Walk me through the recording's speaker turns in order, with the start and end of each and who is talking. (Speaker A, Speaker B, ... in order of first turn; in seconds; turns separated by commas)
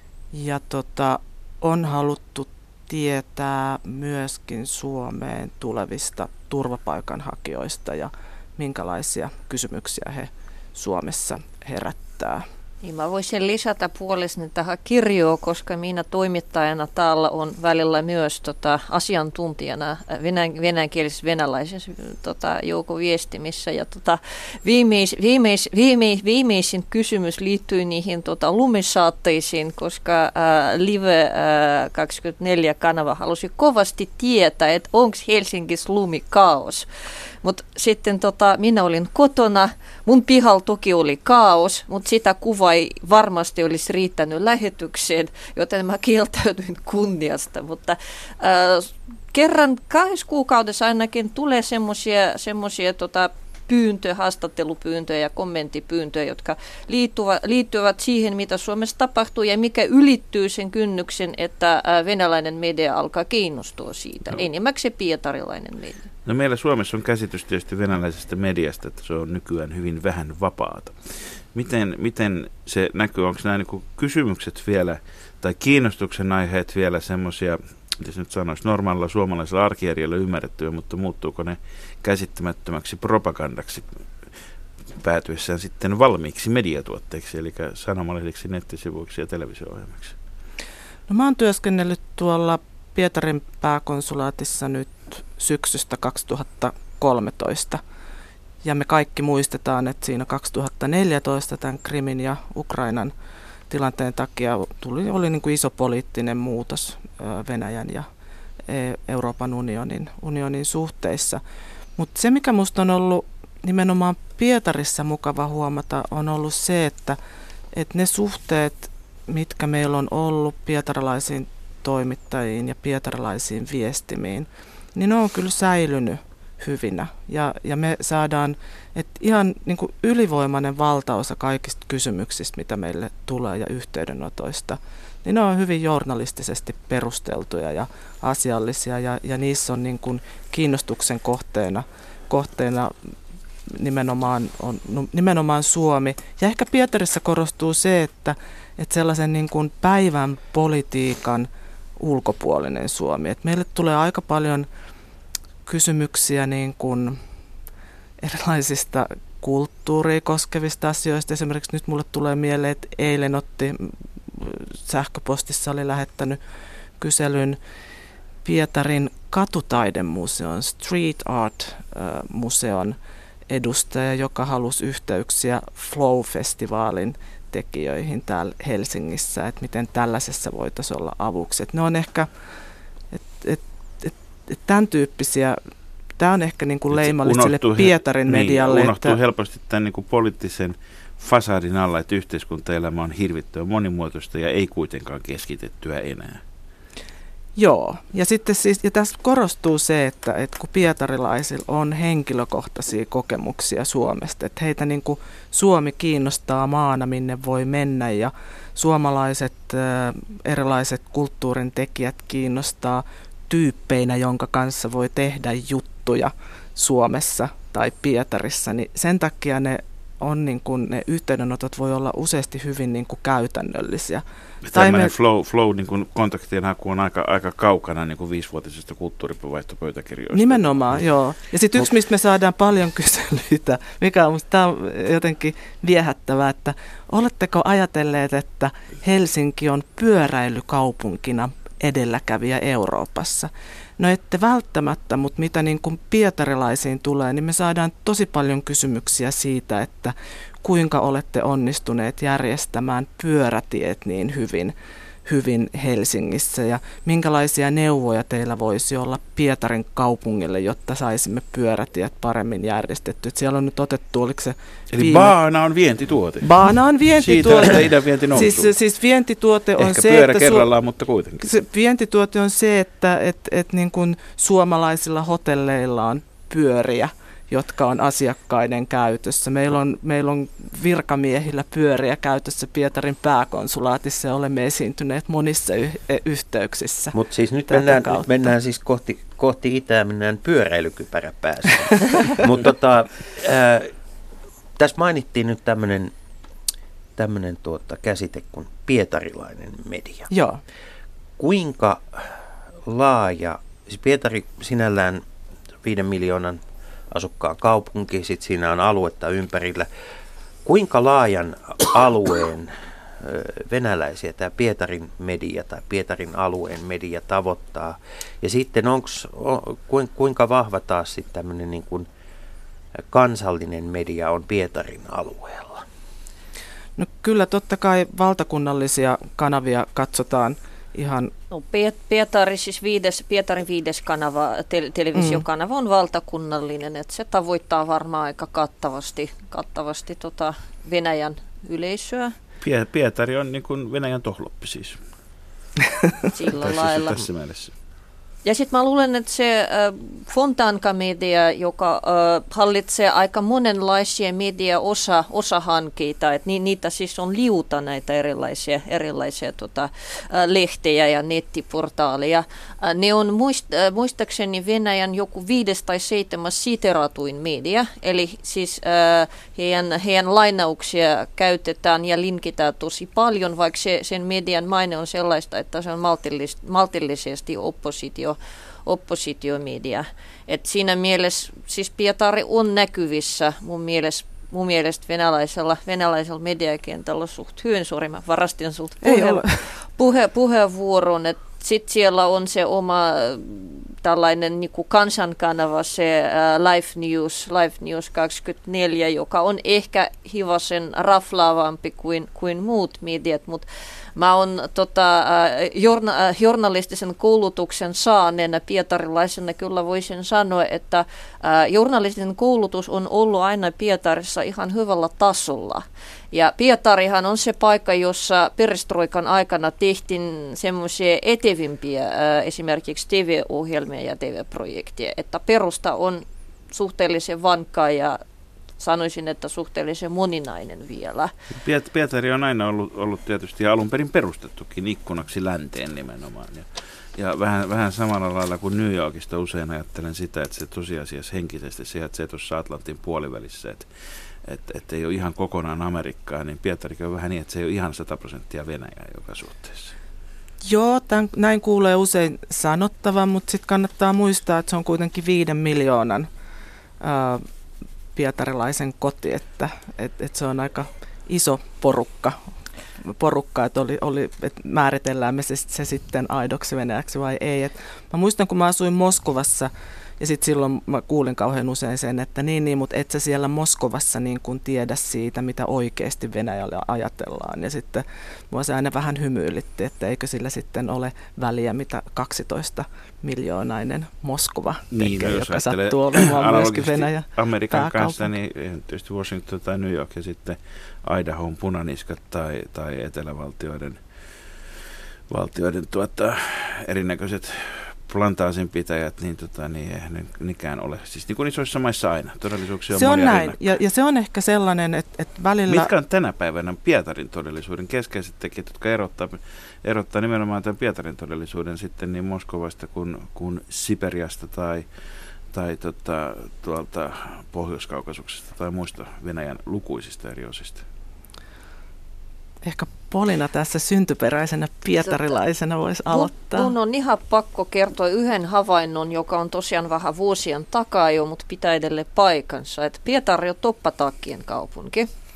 Speaker A: 0.3-12.4, Speaker B: 12.8-36.9, Speaker B: 37.4-66.0, Speaker C: 66.2-83.9, Speaker C: 85.0-90.1, Speaker A: 91.1-97.8, Speaker A: 98.6-103.1, Speaker A: 103.7-108.1, Speaker A: 108.7-111.4, Speaker A: 112.0-117.2, Speaker A: 117.7-143.1, Speaker A: 143.7-151.5, Speaker A: 152.0-154.7, Speaker A: 155.7-157.2, Speaker A: 158.2-166.4, Speaker A: 167.0-167.6, Speaker A: 168.4-172.9, Speaker A: 173.5-182.3, Speaker A: 183.1-185.6, Speaker A: 186.2-189.2, Speaker C: 186.9-196.4, Speaker A: 197.6-225.1, Speaker C: 224.7-230.7, Speaker A: 230.3-254.7, Speaker A: 255.2-265.3, Speaker C: 264.9-266.6, Speaker A: 266.4-270.7, Speaker C: 267.1-268.7, Speaker C: 269.8-271.5, Speaker A: 271.4-287.2, Speaker D: 287.1-293.9, Speaker A: 287.7-288.3, Speaker D: 294.8-296.1, Speaker D: 297.1-300.3, Speaker A: 300.3-300.6, Speaker D: 301.4-305.2, Speaker D: 305.8-309.9, Speaker D: 310.6-322.1, Speaker D: 322.9-325.8, Speaker A: 327.0-331.3, Speaker B: 331.5-342.3, Speaker A: 335.1-335.4, Speaker C: 342.6-345.0, Speaker B: 346.3-347.2, Speaker C: 346.5-347.7, Speaker B: 348.4-403.6, Speaker A: 389.0-389.6, Speaker B: 404.1-428.2, Speaker B: 428.8-431.3, Speaker C: 431.5-443.9, Speaker C: 444.4-449.9, Speaker A: 450.6-456.3, Speaker A: 457.0-457.4, Speaker A: 458.1-462.4, Speaker A: 463.0-488.3, Speaker C: 484.9-494.0, Speaker C: 495.3-503.7, Speaker A: 502.9-505.9, Speaker C: 505.7-514.9, Speaker C: 515.5-520.8, Speaker A: 522.6-526.7, Speaker B: 526.1-535.1